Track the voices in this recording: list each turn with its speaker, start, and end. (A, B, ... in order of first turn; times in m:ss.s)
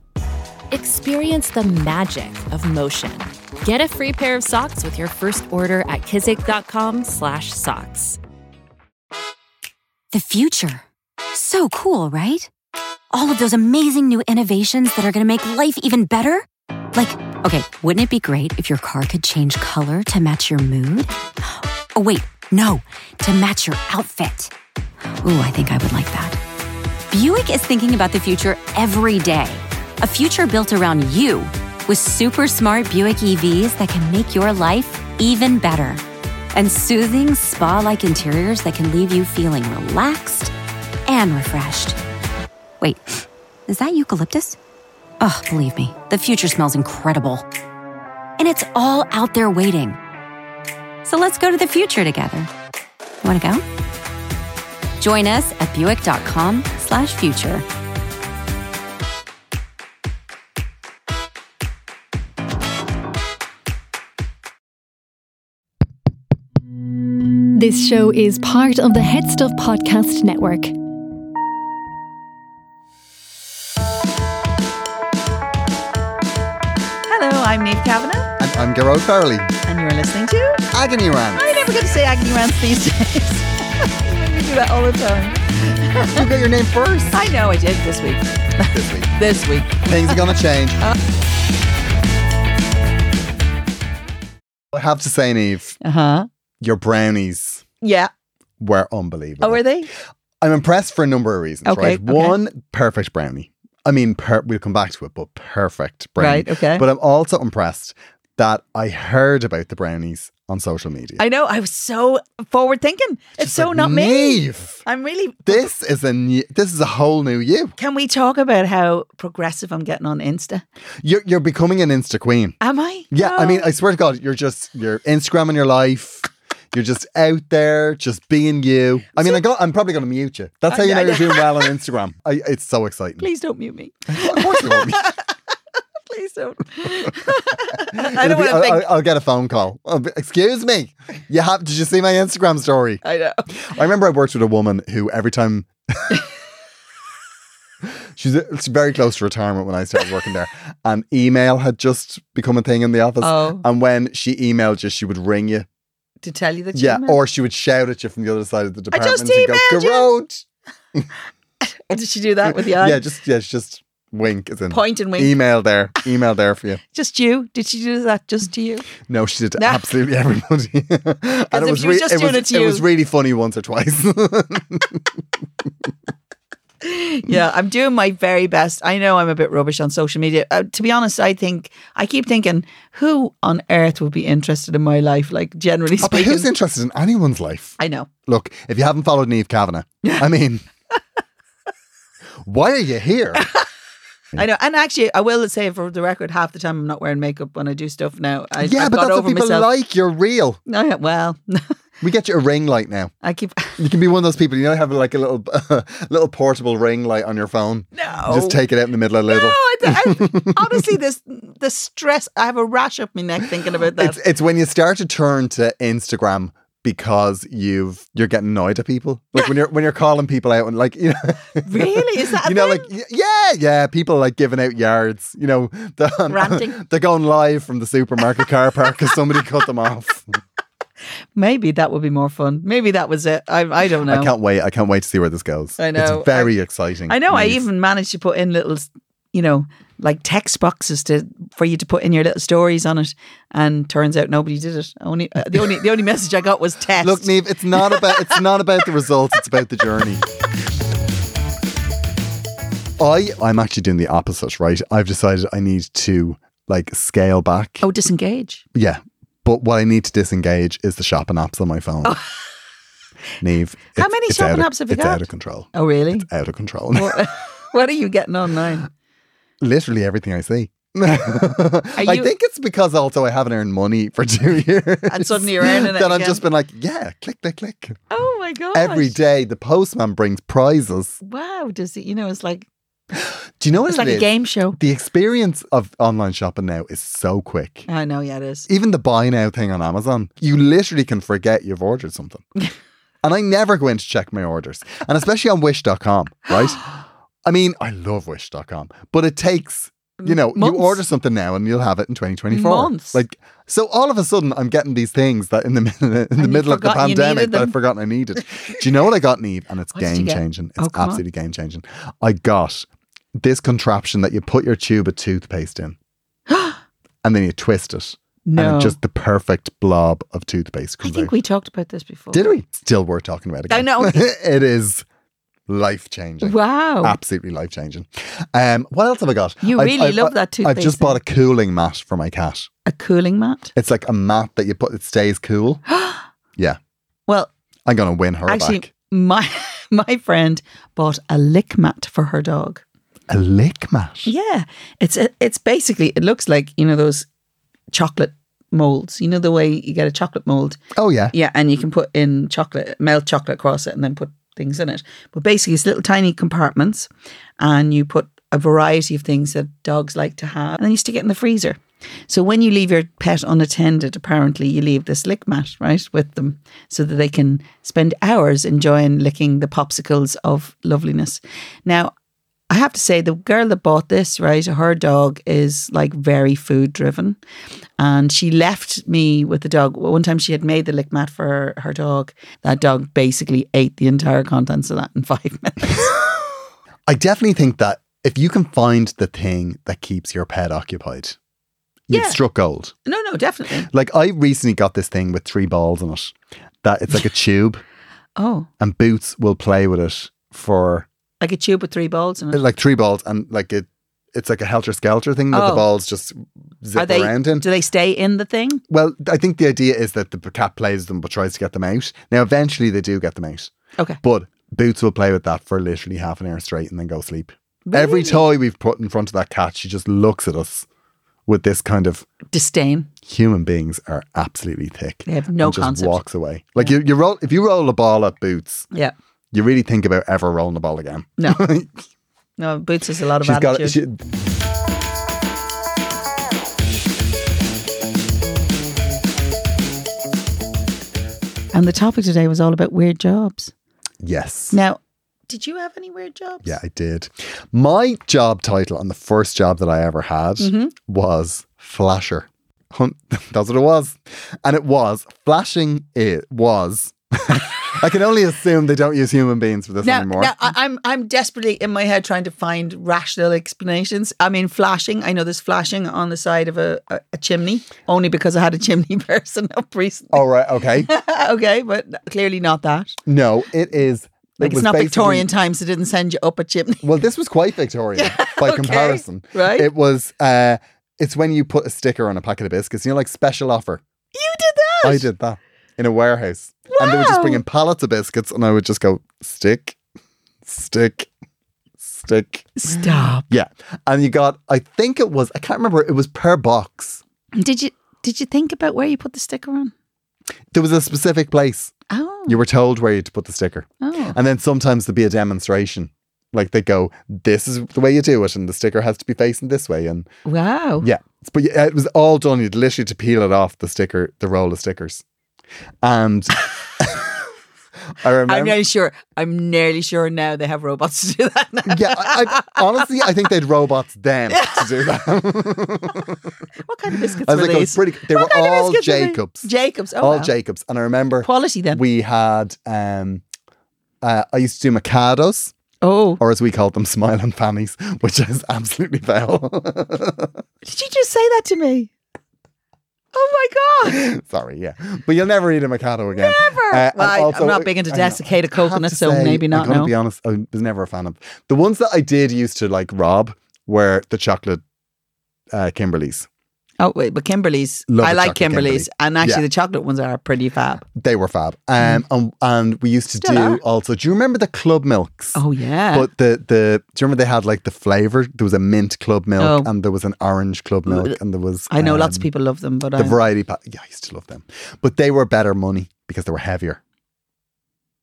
0:00.7-0:08.2 A
0:10.1-0:12.5 B
0:13.1-0:24.5 B
0:25.2-0:26.4 B
0:27.1-0:40.5 B
0:41.1-0:42.0 B
0:42.8-0:44.6 B
0:45.2-0:47.5 B
0:48.4-0:50.0 B
0:51.0-0:52.5 B
0:53.2-0:53.6 B
0:55.0-0:57.6 B
1:07.6-1:10.7 C
1:17.1-1:18.3 D
1:18.4-1:19.5 E
1:19.7-1:20.6 D
1:20.7-1:21.4 E
1:21.4-1:26.2 D
1:26.1-1:27.3 E
1:27.1-1:30.3 D
1:28.7-1:29.1 E
1:29.8-1:30.8 E
1:34.7-1:35.8 E
1:35.8-1:36.3 D
1:36.6-1:37.6 E
1:37.8-1:38.1 D
1:38.6-1:39.6 E
1:39.4-1:39.9 D
1:40.4-1:51.2 E
1:41.7-1:42.4 D
1:46.2-1:46.8 D
1:51.2-1:55.7 D
1:53.4-1:54.8 E
1:55.5-1:57.7 E
1:57.8-2:00.6 D
2:01.0-2:02.6 E
2:02.6-2:03.7 D
2:03.1-2:13.3 E
2:10.7-2:11.5 D
2:13.2-2:15.2 D
2:14.1-2:15.1 E
2:16.1-2:18.9 D
2:17.3-2:26.2 E
2:23.0-2:23.5 D
2:28.2-2:35.7 E
2:33.2-2:33.7 D
2:36.2-2:37.2 D
2:36.7-2:41.1 E
2:38.9-2:40.1 D
2:41.6-2:43.0 D
2:42.5-2:46.8 E
2:44.7-2:45.4 D
2:46.9-2:48.9 D
2:49.0-2:55.1 E
2:49.6-2:49.9 D
2:51.5-2:52.9 D
2:56.8-3:06.5 D
3:06.0-3:10.6 E
3:07.8-3:08.1 D
3:12.4-3:13.5 E
3:13.4-3:13.6 D
3:14.4-3:19.7 D
3:18.6-3:20.6 E
3:20.7-3:21.7 D
3:22.0-3:23.1 E
3:23.2-3:23.8 D
3:23.8-3:30.8 E
3:28.0-3:28.6 D
3:29.3-3:34.2 D
3:34.0-3:50.3 E
3:41.6-3:42.9 D
3:46.3-3:46.8 D
3:51.4-3:54.3 D
3:54.0-3:57.6 E
3:55.8-3:56.5 D
3:57.1-4:08.4 D
4:07.0-4:10.2 E
4:13.0-4:17.8 E
4:17.8-4:18.6 D
4:18.7-4:22.2 E
4:22.0-4:22.3 D
4:23.4-4:27.2 E
4:24.0-4:26.3 D
4:26.9-4:28.9 D
4:29.6-4:38.0 E
4:32.0-4:32.3 D
4:35.1-4:36.4 D
4:38.1-4:39.2 D
4:38.7-4:41.2 E
4:41.2-4:42.7 D
4:43.6-4:47.9 E
4:43.9-4:44.8 D
4:47.9-4:48.7 D
4:48.7-4:52.4 E
4:53.2-5:16.0 E
5:00.2-5:01.0 D
5:02.5-5:03.2 D
5:06.4-5:07.8 D
5:10.0-5:11.2 D
5:16.5-5:16.8 D
5:17.2-5:21.3 E
5:18.5-5:19.0 D
5:21.0-5:22.5 D
5:22.3-5:25.0 E
5:23.7-5:24.3 D
5:25.7-5:32.7 E
5:26.4-5:27.2 D
5:29.6-5:31.2 D
5:32.9-5:33.7 D
5:33.7-5:35.8 E
5:35.9-5:36.2 D
5:37.9-5:38.9 E
5:38.5-5:42.8 D
5:43.3-5:44.3 E
5:44.2-5:47.3 D
5:47.9-5:50.8 D
5:51.0-5:51.4 E
5:51.3-6:12.1 D
6:12.7-6:17.4 D
6:18.0-6:26.2 D
6:27.1-6:31.4 E
6:32.1-6:32.9 E
6:32.1-6:32.4 D
6:33.0-6:33.9 D
6:33.8-6:37.8 E
6:38.4-6:38.7 D
6:38.8-6:41.1 E
6:41.4-6:42.6 D
6:42.5-6:47.7 E
6:45.5-6:45.9 D
6:47.0-6:48.8 D
6:48.9-6:53.7 E
6:54.2-7:00.9 E
6:57.9-6:58.5 D
7:01.5-7:02.3 E
7:02.5-7:03.1 D
7:03.3-7:08.9 E
7:05.3-7:06.2 D
7:09.5-7:12.0 E
7:11.4-7:11.7 D
7:12.6-7:14.0 D
7:13.4-7:14.2 E
7:21.7-7:23.7 D
7:24.2-7:24.8 E
7:24.7-7:26.8 D
7:26.6-7:40.7 E
7:30.6-7:30.9 D
7:40.0-7:50.4 D
7:50.3-7:51.1 E
7:51.0-7:53.2 D
7:53.3-7:55.5 E
7:54.6-7:57.1 D
7:57.0-8:04.0 E
7:58.2-7:59.9 D
8:04.4-8:05.3 D
8:05.0-8:10.0 E
8:06.9-8:07.6 D
8:10.6-8:11.3 E
8:12.0-8:17.2 E
8:12.8-8:13.4 D
8:17.6-8:19.9 D
8:20.7-8:22.0 E
8:22.1-8:22.6 D
8:22.5-8:30.3 E
8:24.0-8:24.4 D
8:30.4-8:31.1 D
8:31.0-8:35.2 E
8:36.0-8:37.3 E
8:38.2-8:38.8 E
8:38.4-8:42.8 D
8:41.9-8:46.4 E
8:44.5-8:44.9 D
8:46.8-8:50.5 D
8:47.4-8:53.4 E
8:51.4-8:52.0 D
8:54.2-8:55.7 E
8:56.0-8:56.4 D
8:56.4-9:00.5 E
9:00.8-9:02.1 D
9:03.3-9:04.3 D
9:04.1-9:14.8 E
9:06.4-9:10.1 D
9:15.7-9:16.5 E
9:17.0-9:21.1 D
9:18.1-9:19.6 E
9:21.1-9:25.6 E
9:23.4-9:23.8 D
9:25.6-9:26.3 D
9:26.1-9:32.5 E
9:29.6-9:29.9 D
9:31.1-9:31.4 D
9:31.9-9:33.4 D
9:33.1-9:37.0 E